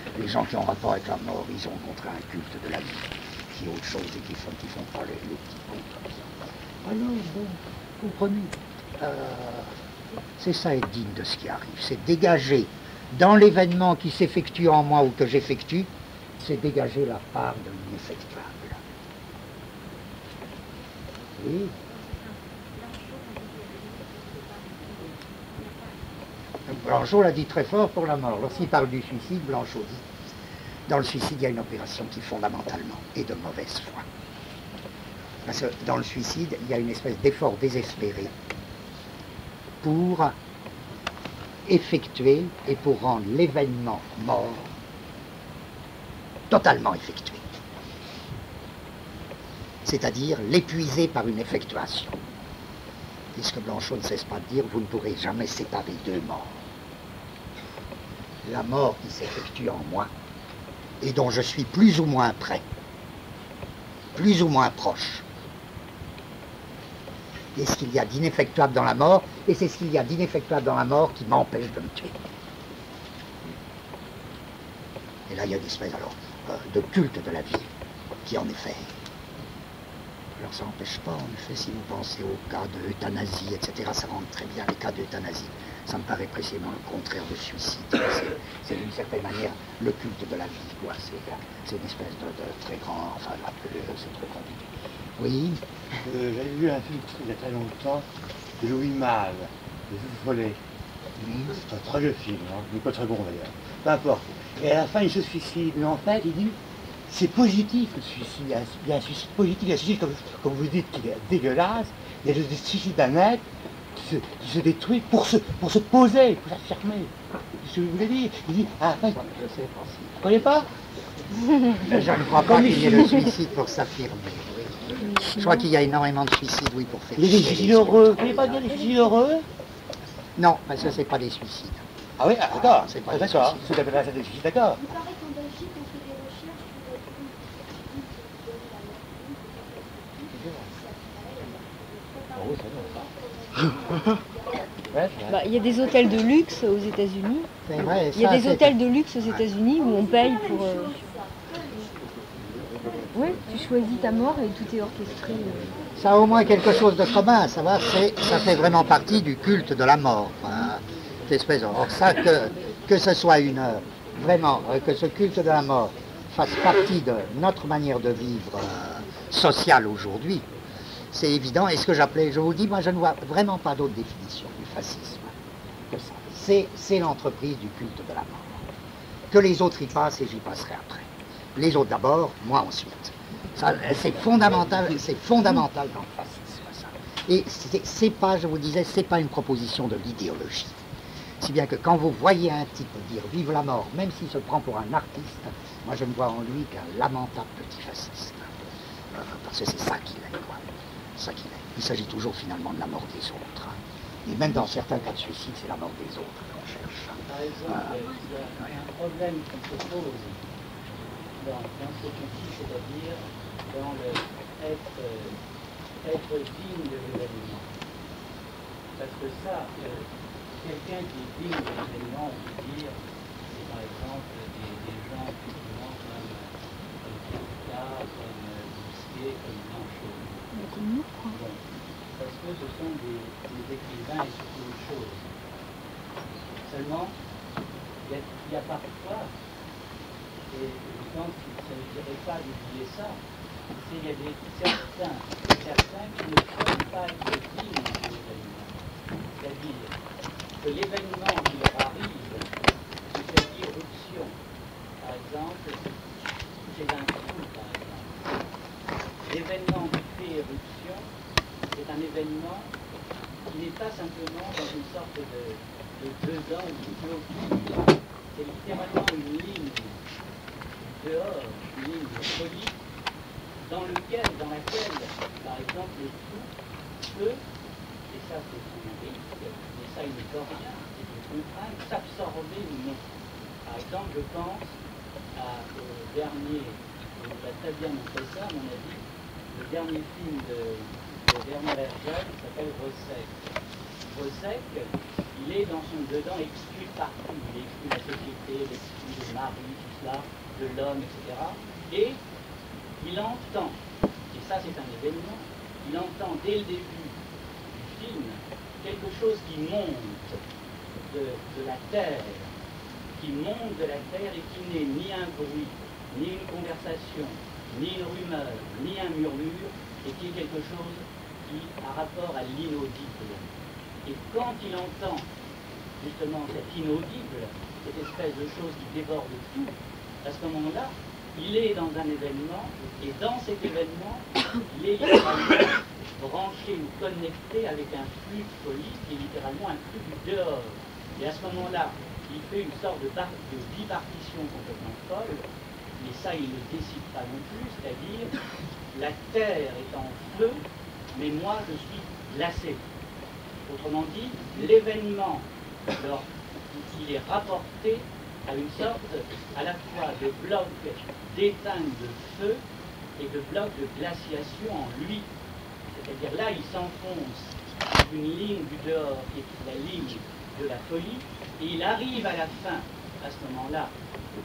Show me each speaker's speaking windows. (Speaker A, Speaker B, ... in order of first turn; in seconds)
Speaker A: 0.1-6.3, 6.8-9.7, 10.4-18.8, 21.4-21.7, 26.6-30.0, 30.9-34.0, 35.4-38.3, 39.8-40.4, 41.6-44.7, 46.5-47.4, 49.8-52.2, 53.3-56.6, 58.4-60.1, 61.0-62.6, 64.1-65.2, 67.5-72.2, 75.3-77.7, 78.2-78.9, 80.4-95.6, 119.2-120.2, 121.8-128.7, 130.4-131.8, 132.5-133.7, 147.7-148.7, 155.9-170.5, 171.1-175.3, 175.9-178.7, 179.3-190.8, 191.4-198.5, 199.1-208.0
Speaker B: 96.0-100.6, 101.2-106.6, 107.1-119.3, 120.2-120.7, 121.9-123.3, 127.2-129.4, 132.2-134.9, 140.3-140.8, 142.3-143.1, 143.8-144.2, 144.9-145.4
Speaker C: 145.3-147.5, 148.1-151.0, 153.1-155.6, 230.5-231.4
Speaker D: 207.3-210.4, 211.4-215.4, 216.0-217.7, 219.0-220.1, 220.6-226.5, 227.0-230.5, 231.3-231.6, 232.2-235.2, 236.7-237.1, 238.0-239.3, 240.5-243.2, 243.7-248.7, 249.3-249.9, 250.6-252.5, 253.1-254.3, 255.0-255.9, 256.6-258.3, 259.2-261.1, 261.7-262.7, 263.5-270.0, 270.8-272.7, 273.6-276.5, 277.0-277.4, 278.1-283.0, 283.6-284.7, 285.3-293.3, 294.1-302.2, 303.0-303.8, 304.3-307.1, 307.7-310.4, 311.1-312.5, 313.2-323.5, 324.0-325.3, 326.0-345.4, 346.0-348.4, 348.9-352.8, 353.7-362.6, 363.2-365.3, 365.9-373.9